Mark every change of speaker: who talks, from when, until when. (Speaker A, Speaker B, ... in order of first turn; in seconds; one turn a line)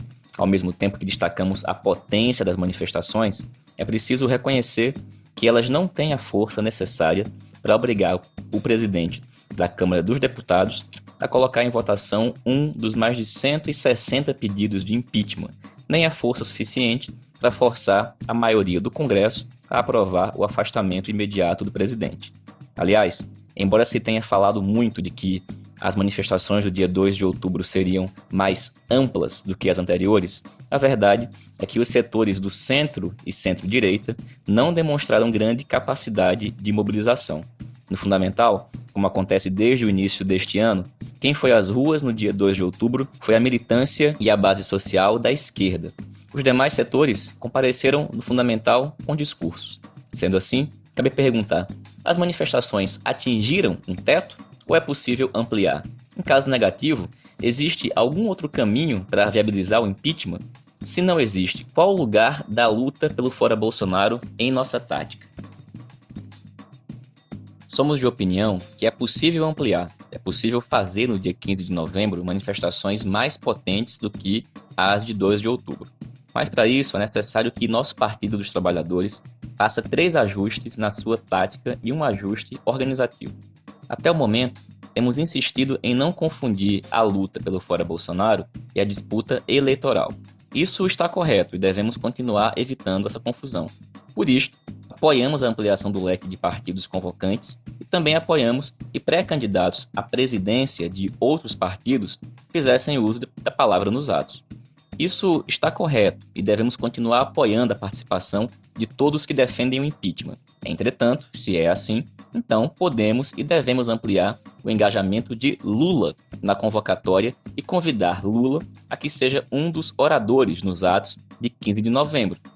Speaker A: 0.4-65.3
Speaker A: 67.7-83.4
Speaker A: 83.9-104.4
Speaker A: 105.0-122.4